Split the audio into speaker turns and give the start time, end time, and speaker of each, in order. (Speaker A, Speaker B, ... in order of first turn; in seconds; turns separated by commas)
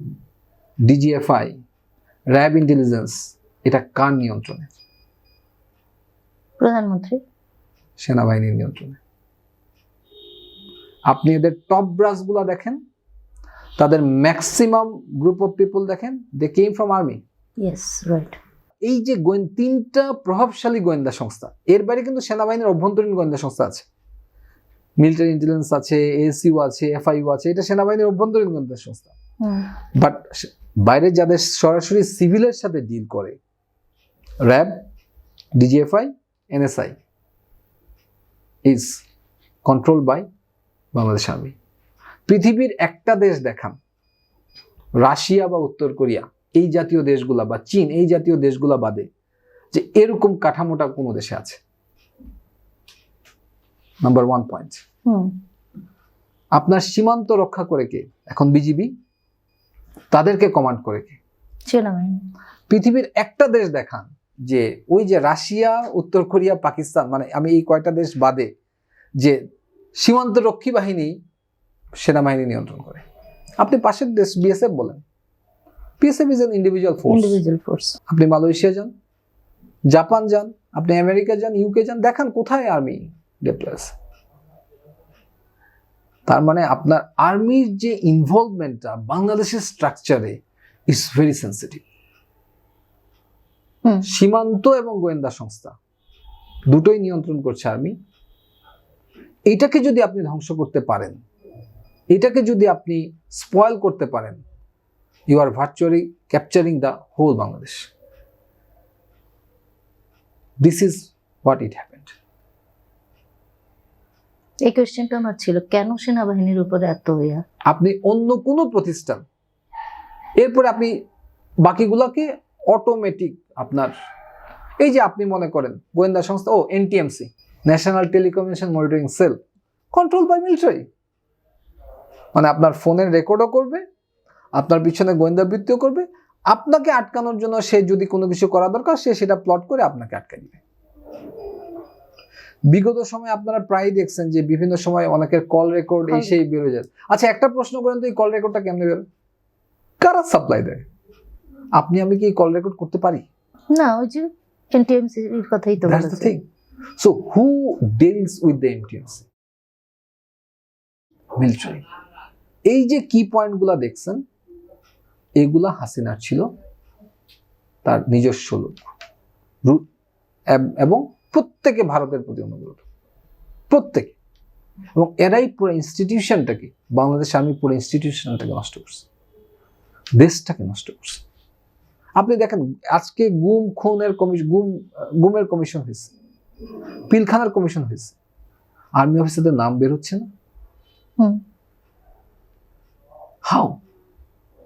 Speaker A: 0.9-1.6, Speaker A: 2.3-4.7, Speaker B: 6.6-7.2, Speaker A: 8.0-9.0, Speaker A: 11.1-12.8, Speaker A: 13.8-17.2, Speaker B: 17.6-18.4, Speaker A: 18.8-23.9, Speaker A: 25.0-29.1, Speaker B: 29.4-29.7, Speaker A: 29.9-33.4, Speaker A: 34.4-34.8, Speaker A: 35.6-37.0, Speaker A: 38.6-39.0, Speaker A: 39.6-40.2, Speaker A: 40.9-41.5, Speaker A: 42.3-43.8, Speaker A: 45.0-49.1, Speaker A: 49.7-51.6, Speaker A: 54.0-54.8, Speaker B: 55.0-55.3, Speaker A: 56.5-58.9, Speaker A: 60.1-61.2, Speaker B: 61.7-62.2, Speaker A: 62.7-68.5, Speaker A: 70.0-71.2, Speaker A: 72.0-73.0, Speaker A: 73.6-75.0, Speaker A: 76.0-77.4, Speaker B: 77.1-78.0, Speaker A: 78.1-78.9, Speaker A: 79.9-83.9, Speaker A: 86.3-91.8, Speaker A: 94.0-95.8, Speaker A: 96.7-97.9, Speaker A: 99.5-101.2, Speaker A: 102.1-104.4, Speaker A: 105.3-107.9, Speaker A: 110.6-112.1, Speaker B: 114.7-117.4, Speaker A: 117.7-119.2, Speaker A: 120.4-120.9, Speaker A: 121.6-123.9, Speaker A: 124.8-129.4, Speaker A: 129.9-130.8, Speaker A: 132.3-133.8, Speaker A: 134.6-140.6, Speaker A: 142.7-149.0, Speaker B: 146.1-146.3, Speaker A: 150.0-150.8, Speaker A: 151.8-153.2, Speaker B: 153.7-156.4, Speaker A: 155.8-156.4, Speaker A: 157.0-159.3, Speaker A: 161.4-161.8, Speaker A: 162.7-164.2, Speaker A: 165.4-166.4, Speaker A: 167.8-168.9, Speaker A: 170.5-172.8, Speaker A: 173.7-174.2, Speaker A: 174.9-179.1, Speaker A: 180.2-181.2, Speaker A: 182.2-186.1, Speaker A: 187.1-188.2, Speaker A: 189.0-190.2, Speaker A: 193.4-193.8